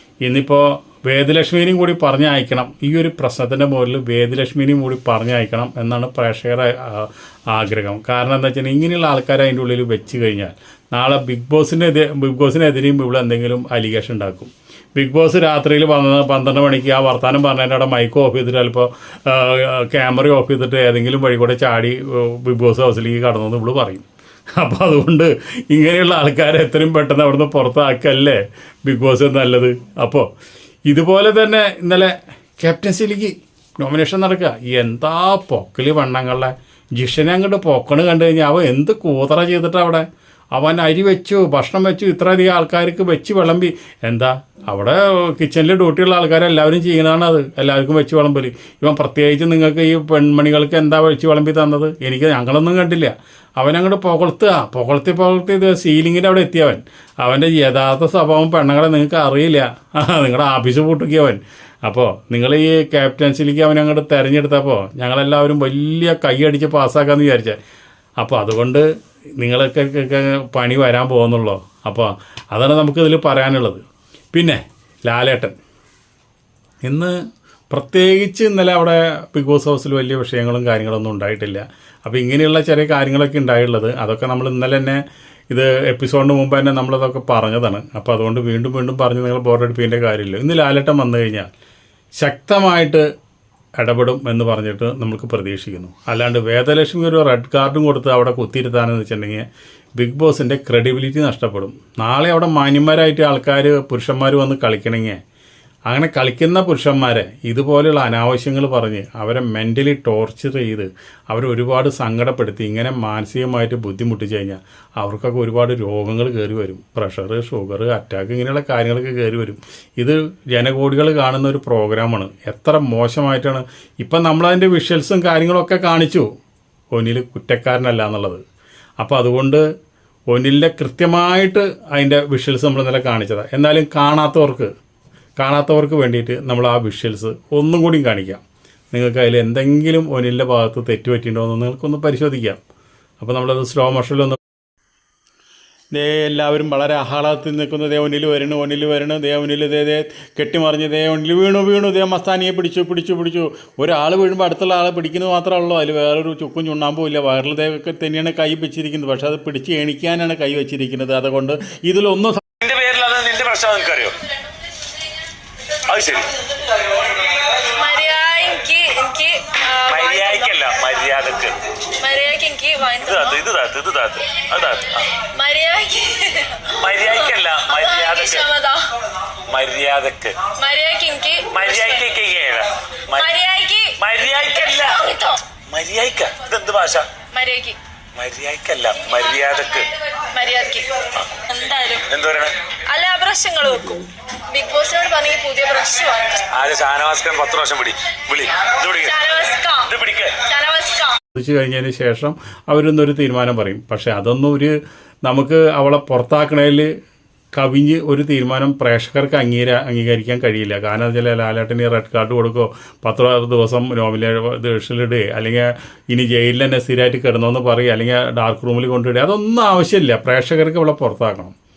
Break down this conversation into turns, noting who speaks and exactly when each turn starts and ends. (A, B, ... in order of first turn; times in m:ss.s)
0:00.2-0:24.1 A
0:24.6-0:30.3 A
0:30.9-1:07.6 A
1:08.2-1:08.8 A
1:09.4-1:13.8 A
1:14.3-1:15.6 A
1:16.8-1:17.2 A
1:17.7-1:31.5 A
1:32.2-1:33.0 A
1:33.8-1:39.5 A
1:40.0-1:45.2 A
1:45.9-2:06.3 A
2:06.9-2:08.4 A
2:09.0-2:09.6 A
2:10.3-2:14.7 A
2:15.4-2:22.6 A
2:23.2-2:24.4 A
2:25.9-2:42.5 A
2:42.6-2:44.2 B
2:45.9-2:46.3 B
2:47.7-2:50.5 C
2:49.9-2:51.6 B
2:52.0-2:53.4 C
2:53.0-2:55.2 B
2:55.2-2:58.8 C
2:56.7-2:58.5 B
2:59.5-3:00.4 B
3:00.6-3:02.1 C
3:01.5-3:03.4 B
3:03.1-3:04.0 C
3:04.0-3:07.1 B
3:04.6-3:05.4 C
3:07.3-3:07.8 C
3:08.2-3:09.9 B
3:10.3-3:10.9 C
3:11.5-3:12.0 C
3:12.0-3:12.5 B
3:12.9-3:16.5 C
3:16.5-3:19.2 B
3:19.0-3:21.2 C
3:19.8-3:20.4 B
3:21.3-3:26.9 A
3:27.5-3:41.5 A